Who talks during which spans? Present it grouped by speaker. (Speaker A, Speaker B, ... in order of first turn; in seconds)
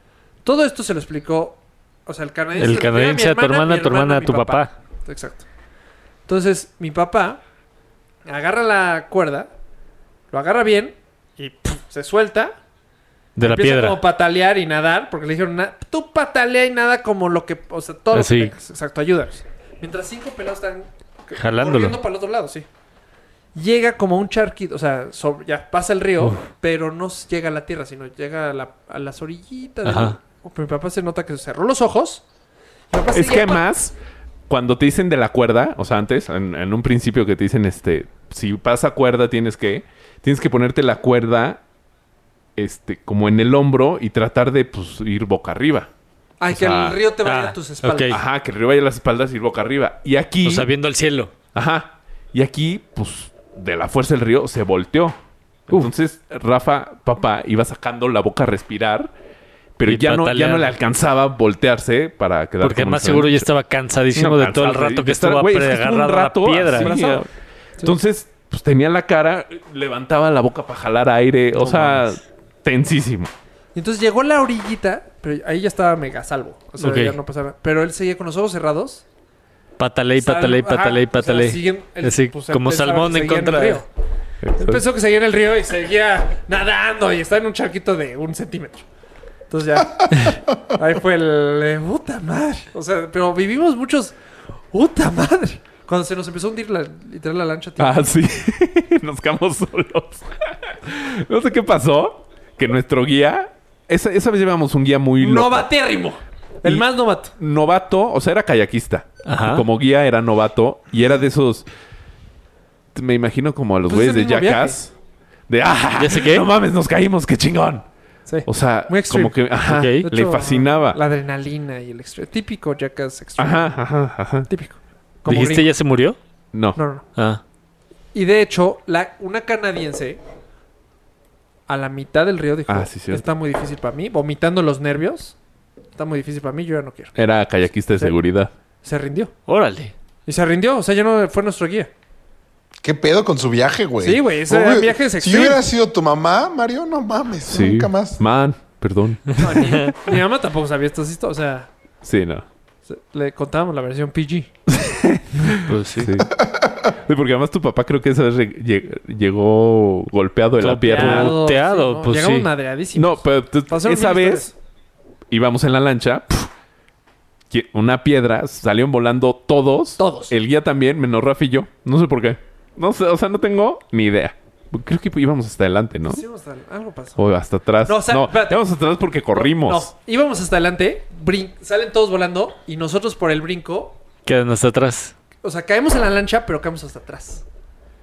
Speaker A: 0.4-5.5, 6.3-7.4, 8.2-9.5, 10.3-12.6, 13.4-22.7, 23.6-32.2, 32.9-33.6, 46.4-48.2, 66.8-67.3, 73.8-79.0, 80.2-83.9, 84.6-88.9, 89.5-94.2, 94.7-98.0, 105.2-107.3, 113.9-114.8, 118.3-123.8, 124.5-125.7, 126.8-127.0, 128.1-130.2, 131.7-135.4, 136.0-137.1, 138.8-139.3, 140.3-141.9, 144.0-145.6, 149.4-151.7, 152.9-154.5, 160.8-164.5, 170.0-170.3, 176.1-177.2, 177.9-178.6, 179.3-184.0, 185.4-187.4
Speaker B: 2.6-4.7, 13.4-14.0, 18.1-18.5, 21.3-22.0, 26.2-26.4, 29.9-30.2, 47.2-48.2, 50.4-51.3, 59.9-60.7, 62.6-66.9, 71.6-72.1, 76.8-77.2, 79.8-83.8, 109.3-109.6, 116.0-116.5, 119.7-120.1, 125.3-126.2, 127.2-127.4, 139.5-139.9, 155.6-156.1, 160.6-162.5, 184.3-185.1
Speaker C: 33.1-33.9, 34.5-41.6, 42.6-45.9, 46.5-47.0, 48.1-50.7, 51.5-55.2, 55.7-59.1, 59.8-63.5, 64.1-67.3, 67.8-73.3, 84.4-84.8, 97.8-105.7, 106.6-111.7, 113.0-114.9, 115.5-117.8, 118.5-121.0, 123.4-124.5, 126.5-126.8, 132.7-133.2, 137.2-138.5, 147.5-149.9, 152.0-152.4, 154.7-156.3, 157.1-161.4, 162.9-164.5, 165.3-166.5, 167.5-176.2, 177.2-179.9
Speaker D: 142.8-148.2, 156.2-156.7